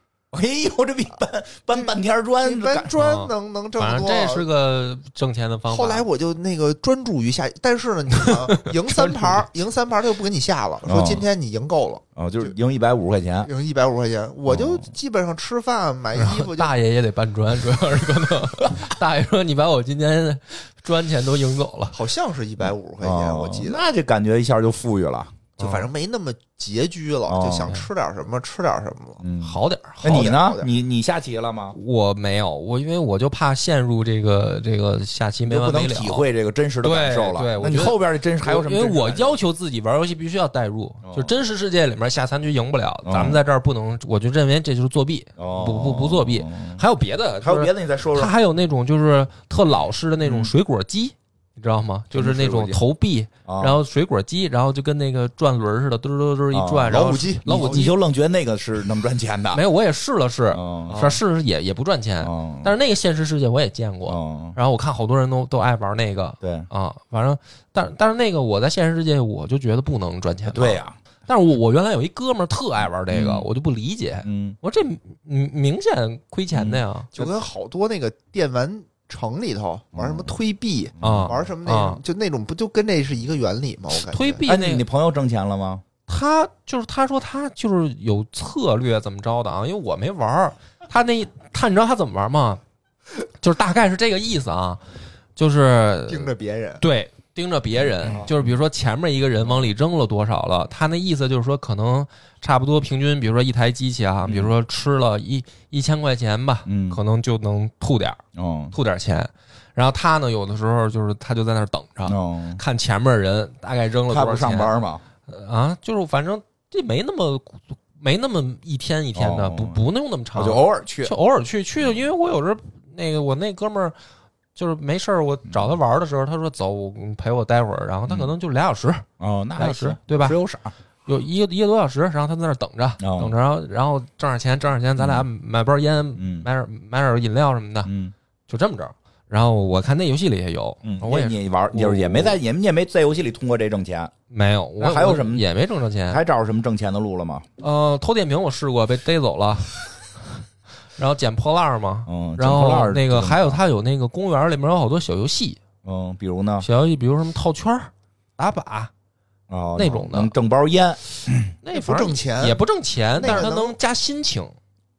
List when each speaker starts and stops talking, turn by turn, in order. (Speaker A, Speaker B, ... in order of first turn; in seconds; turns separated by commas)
Speaker A: 0.3-2.9, Speaker B: 1.8-4.5, Speaker C: 3.0-6.0, Speaker B: 5.7-12.5, Speaker C: 8.3-9.3, Speaker A: 10.9-11.2, Speaker A: 12.2-13.5, Speaker B: 13.4-16.7, Speaker A: 14.5-14.8, Speaker C: 16.1-22.0, Speaker B: 21.9-23.9, Speaker A: 23.0-25.3, Speaker C: 25.6-25.9, Speaker B: 25.6-29.2, Speaker A: 27.3-27.8, Speaker A: 29.2-31.8, Speaker C: 29.4-30.3, Speaker B: 30.0-30.7, Speaker C: 31.8-36.3, Speaker A: 35.5-39.4, Speaker C: 36.8-57.9, Speaker A: 41.0-41.4, Speaker A: 43.0-43.4, Speaker A: 45.4-46.8, Speaker A: 47.4-48.4, Speaker A: 50.2-50.5, Speaker A: 52.1-52.8, Speaker A: 53.5-53.8, Speaker A: 56.5-59.6, Speaker B: 56.9-57.9, Speaker C: 59.5-77.3, Speaker A: 60.5-61.2, Speaker A: 62.2-62.7, Speaker A: 64.1-64.6, Speaker A: 66.4-66.7, Speaker A: 70.5-71.0, Speaker A: 73.1-73.5, Speaker A: 74.2-74.6, Speaker A: 76.5-76.8, Speaker B: 77.1-84.4, Speaker A: 80.0-80.3, Speaker A: 81.0-81.4, Speaker C: 81.0-82.0, Speaker C: 84.1-84.8, Speaker A: 84.5-85.8, Speaker C: 86.1-92.6, Speaker C: 93.4-94.8, Speaker C: 95.4-108.2, Speaker B: 96.1-96.8, Speaker A: 98.0-98.5, Speaker A: 104.2-104.5, Speaker A: 106.7-107.0, Speaker A: 108.3-108.7, Speaker C: 108.7-114.7, Speaker A: 112.0-112.6, Speaker A: 114.1-115.0, Speaker C: 115.3-124.0, Speaker A: 119.2-121.2, Speaker C: 124.5-129.1, Speaker A: 125.5-125.8, Speaker A: 129.2-130.8, Speaker C: 129.6-130.4, Speaker C: 131.1-137.9, Speaker A: 133.0-133.3, Speaker A: 135.0-135.3, Speaker A: 136.2-136.5, Speaker A: 137.8-138.1, Speaker C: 138.5-142.4, Speaker A: 140.8-144.1, Speaker C: 144.3-146.2, Speaker A: 144.8-145.5, Speaker A: 146.1-147.5, Speaker C: 147.6-150.4, Speaker C: 151.0-155.6, Speaker A: 152.1-153.6, Speaker A: 155.8-156.7, Speaker C: 156.6-158.9, Speaker A: 159.5-161.5, Speaker C: 159.8-160.3, Speaker C: 161.6-164.6, Speaker B: 161.7-162.6, Speaker B: 163.2-163.8